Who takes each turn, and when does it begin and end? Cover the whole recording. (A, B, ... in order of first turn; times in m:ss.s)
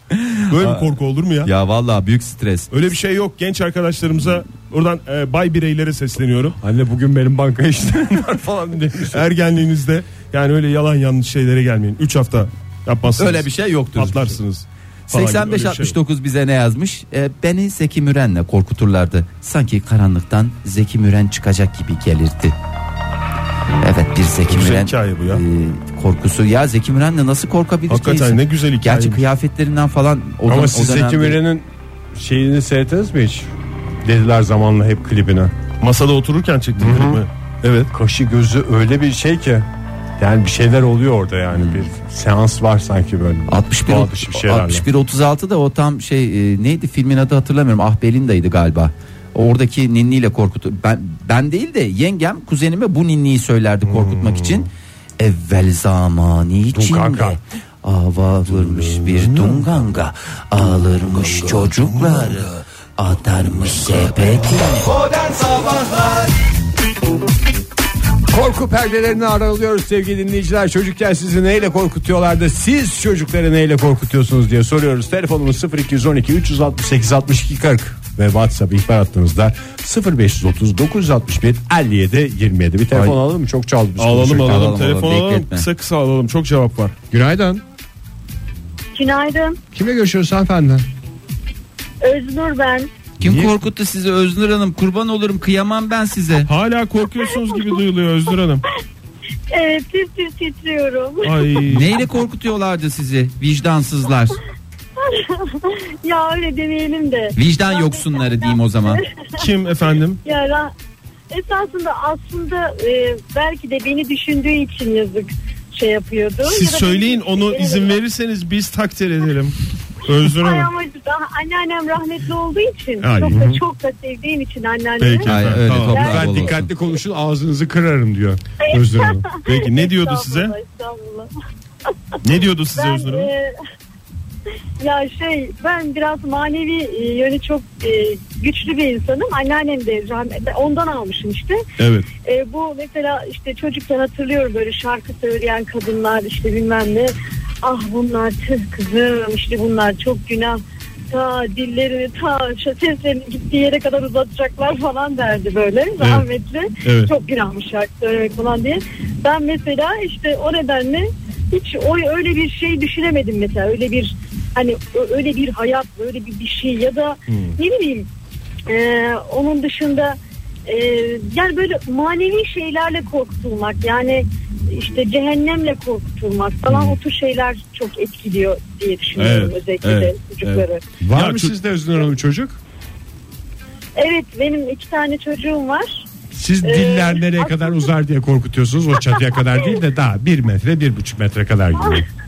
0:00.1-0:00.9 A
0:00.5-0:01.5 B
0:01.4-0:02.7 A
0:02.7-0:06.6 B
0:06.6-0:09.2 C
0:09.0-0:16.0 B
0:13.2-0:14.4 A
0:15.1-0:22.5 A
0:23.8-0:31.4 A
0:24.4-0:25.4 B
0:27.9-0:29.2 B
0:30.4-0:33.5 C
0:34.0-0:35.5 C
0:35.8-0:37.9 B
0:36.8-0:37.2 C
0:37.9-0:39.7 C
0:40.2-0:44.8 C
0:41.5-0:41.8 A
0:43.5-0:54.7 A
0:54.0-0:54.6 B
0:55.2-1:05.0 A
0:56.7-0:57.4 C
1:05.0-1:05.9 C
1:08.3-1:24.8 C
1:24.0-1:27.0 B
1:24.4-1:25.7 A
1:27.1-1:27.6 C
1:28.9-1:29.6 D
1:29.7-1:30.8 C
1:32.0-1:32.9 D
1:33.2-1:36.5 A
1:33.2-1:33.5 C
1:36.4-1:38.6 B
1:37.2-1:37.8 D
1:39.5-1:41.7 D
1:41.2-1:41.9 B
1:41.7-1:44.4 A
1:45.0-1:49.4 D
1:47.4-1:49.0 A
1:49.4-1:50.2 B
1:50.2-1:50.7 D
1:51.3-1:58.0 D
1:56.4-2:00.7 B
2:00.1-2:06.3 D
2:03.0-2:03.6 B
2:05.0-2:06.0 B
2:05.2-2:06.7 A
2:06.0-2:09.2 C
2:08.6-2:11.3 D
2:09.4-2:10.5 B
2:12.2-2:13.3 B
2:12.7-2:13.5 D
2:14.8-2:21.6 D
2:21.8-2:22.1 B
2:22.2-2:30.6 D
2:31.1-2:48.1 D
2:36.0-2:36.2 B
2:36.8-2:37.1 B
2:48.7-3:00.8 D
2:59.2-3:01.5 B
3:01.0-3:02.6 C
3:04.0-3:06.0 D
3:06.3-3:12.1 C
3:06.6-3:07.9 D
3:11.8-3:12.0 D